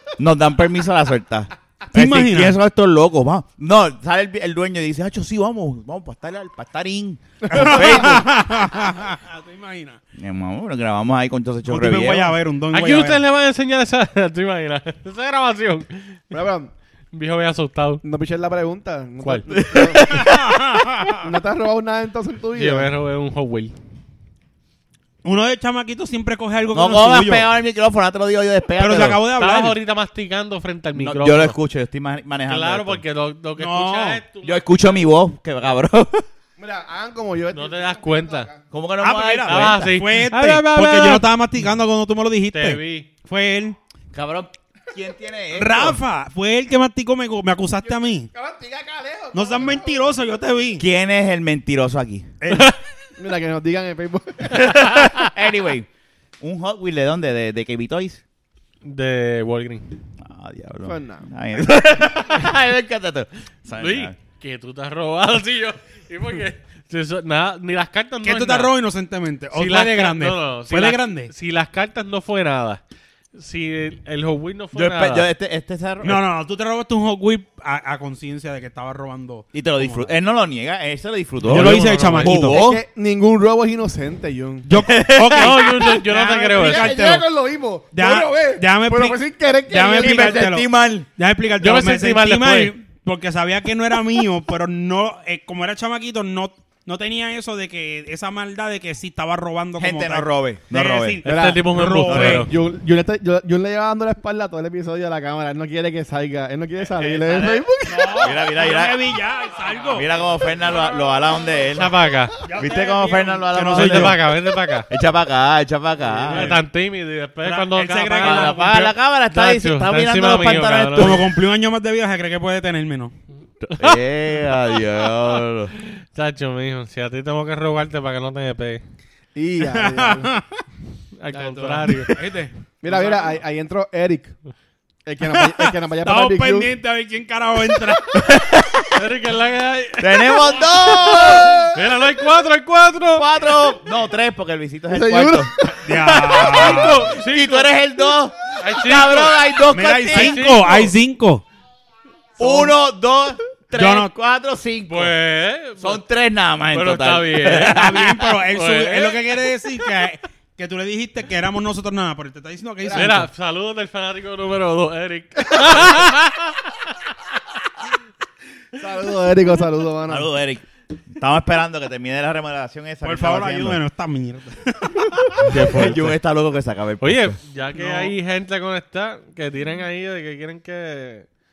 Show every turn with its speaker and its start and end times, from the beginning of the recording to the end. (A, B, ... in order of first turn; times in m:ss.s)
0:00.2-0:08.3 A
0:01.9-0:02.6 B
0:07.4-0:08.2 C
0:07.5-0:10.0 B
0:10.2-0:12.4 A
0:11.6-0:13.2 B
0:12.7-0:16.2 D
0:16.3-0:16.7 C
0:17.1-0:18.0 D
0:18.0-0:20.0 C
0:19.5-0:21.1 A
0:20.1-0:21.2 B
0:21.2-0:22.9 C
0:22.5-0:23.7 D
0:25.2-0:27.4 B
0:26.7-0:29.2 A
0:28.8-0:29.8 B
0:29.3-0:31.5 D
0:30.9-0:33.0 A
0:32.5-0:34.7 D
0:33.6-0:34.2 B
0:34.4-0:36.2 A
0:36.6-0:38.6 C
0:37.5-0:38.5 D
0:38.7-0:39.9 A
0:39.0-0:43.8 B
0:39.4-0:41.3 D
0:42.5-0:43.1 D
0:44.1-0:46.0 A
0:45.5-0:48.3 B
0:48.2-0:50.1 C
0:49.3-0:50.8 B
0:50.8-0:52.3 A
0:52.4-0:52.7 B
0:53.2-0:54.7 C
0:54.5-0:55.9 A
0:56.4-0:58.2 A
0:58.8-0:59.9 D
1:00.2-1:04.2 A
1:00.8-1:01.3 C
1:03.8-1:08.7 D
1:08.2-1:11.3 B
1:09.5-1:12.8 D
1:13.3-1:15.3 D
1:14.7-1:16.2 A
1:16.0-1:20.1 B
1:19.5-1:22.8 A
1:21.4-1:22.6 D
1:21.4-1:22.6 B
1:22.5-1:24.7 C
1:24.7-1:27.2 B
1:24.7-1:25.8 A
1:25.3-1:26.9 D
1:26.5-1:30.5 C
1:27.9-1:42.5 B
1:29.9-1:31.1 A
1:31.6-1:32.7 D
1:39.8-1:41.2 A
1:41.2-1:42.5 D
1:41.2-1:48.3 C
1:42.1-1:42.4 A
1:46.9-1:49.2 A
1:47.8-1:50.1 B
1:49.9-1:51.9 A
1:51.7-1:52.4 D
1:52.4-1:54.3 B
1:52.5-1:54.2 A
1:53.7-1:54.9 D
1:54.9-1:56.6 A
1:56.2-1:56.6 B
1:56.3-2:01.2 D
1:57.4-1:58.6 B
1:58.2-2:01.3 A
2:01.0-2:03.1 B
2:03.6-2:04.0 D
2:03.8-2:05.7 A
2:05.1-2:08.8 D
2:09.3-2:10.3 C
2:09.6-2:10.6 B
2:11.2-2:12.1 D
2:11.3-2:13.4 B
2:12.8-2:14.3 C
2:15.0-2:16.7 C
2:15.3-2:18.2 B
2:18.2-2:18.9 A
2:18.9-2:23.3 D
2:20.0-2:21.6 A
2:21.2-2:21.6 C
2:23.1-2:25.5 A
2:24.9-2:26.0 C
2:25.8-2:27.1 B
2:26.1-2:30.4 A
2:26.3-2:27.7 D
2:28.6-2:29.4 D
2:29.7-2:31.4 B
2:30.1-2:30.9 D
2:32.4-2:35.1 A
2:33.7-2:34.1 B
2:34.9-2:36.0 D
2:35.8-2:38.3 A
2:36.7-2:39.2 D
2:37.5-2:43.3 B
2:42.8-2:43.2 C
2:42.9-2:46.8 D
2:48.8-2:50.3 C
2:50.1-2:53.8 A
2:53.0-2:55.5 B
2:55.4-2:56.1 D
2:55.4-2:57.4 A
2:57.0-3:01.3 D
2:57.7-2:58.1 B